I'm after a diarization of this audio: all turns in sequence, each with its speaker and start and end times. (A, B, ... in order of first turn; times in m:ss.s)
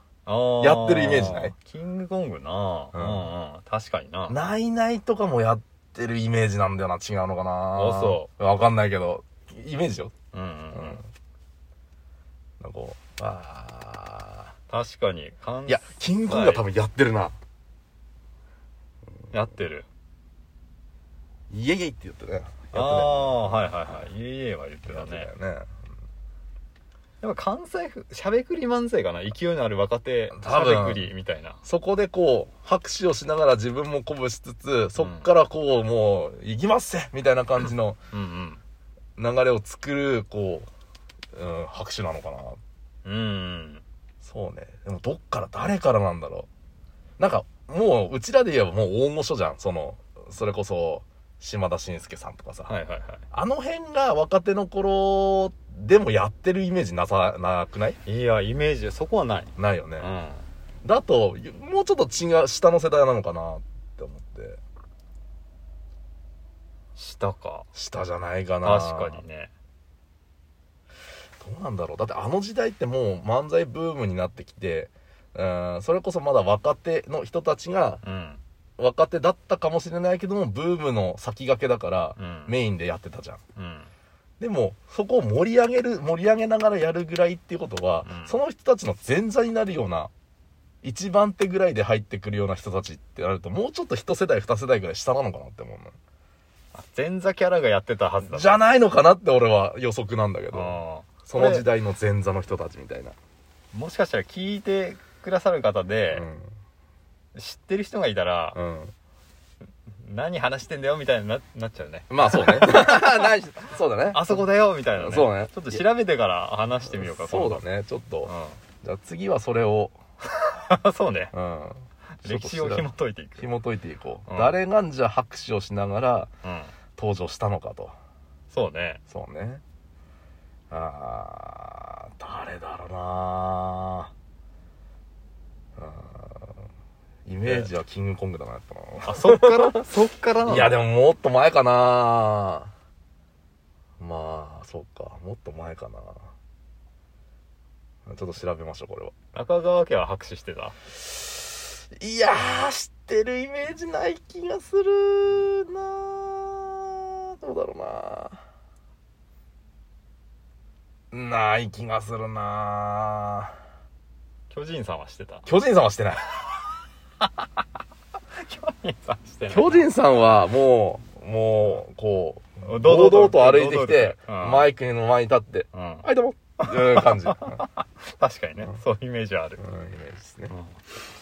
0:00.2-0:04.4 A
0:00.6-0:01.5 B
0:02.9-0:03.3 B
0:04.3-0:10.1 B
0:07.7-0:08.3 A
0:10.3-0:11.0 A
0:10.7-0:11.0 B
0:12.6-0:14.5 B
0:14.7-0:16.6 A
0:15.7-0:17.4 B
0:19.3-0:19.8 A
0:21.5-0:23.8 B
0:22.7-0:25.3 A
0:24.8-0:25.7 B
0:27.2-0:31.6 A
0:30.3-0:31.1 B
0:31.6-0:38.0 B
0:35.0-0:35.3 A
0:38.1-0:38.6 A
0:39.2-0:40.7 B
0:41.3-0:42.6 B
0:43.0-0:43.8 A
0:44.2-0:46.5 B
0:47.2-0:52.7 B
0:52.6-0:53.2 A
0:53.3-0:58.0 B
0:58.0-1:00.4 A
0:59.6-1:00.1 B
1:00.8-1:04.6 B
1:07.0-1:07.6 A
1:07.7-1:09.2 B
1:08.6-1:09.5 A
1:11.4-1:18.0 B
1:18.0-1:18.4 A
1:18.8-1:23.4 B
1:22.2-1:22.5 A
1:23.6-1:23.9 A
1:24.4-1:30.1 B
1:28.0-1:28.3 A
1:30.8-1:35.9 B
1:36.7-1:38.6 A
1:38.3-1:43.1 B
1:40.5-1:41.7 A
1:43.7-1:46.2 A
1:46.1-1:46.5 B
1:47.3-1:48.6 A
1:48.5-1:48.9 B
1:49.9-1:53.3 A
1:52.1-1:54.4 B
1:54.1-1:57.6 A
1:55.0-1:55.8 B
1:56.8-2:00.0 B
1:58.2-1:58.6 A
2:00.4-2:01.3 A
2:01.3-2:06.3 B
2:02.2-2:03.5 A
2:04.3-2:04.6 A
2:06.4-2:06.7 A
2:07.0-2:07.9 B
2:08.5-2:09.0 A
2:09.1-2:09.6 B
2:10.7-2:14.1 B
2:15.8-2:16.6 B
2:17.2-2:19.8 B
2:17.4-2:17.7 A
2:19.0-2:20.8 A
2:20.4-2:22.7 B
2:24.0-2:26.3 B
2:28.0-2:29.1 B
2:29.3-2:30.8 A
2:31.9-2:38.4 B
2:41.1-2:43.6 B
2:44.5-2:45.5 A
2:45.4-2:46.3 B
2:48.4-2:49.9 A
2:49.5-2:57.6 B
2:52.6-2:54.7 A
2:55.7-2:56.1 A
2:56.6-2:59.6 A
2:59.6-3:00.5 B
3:00.5-3:00.8 A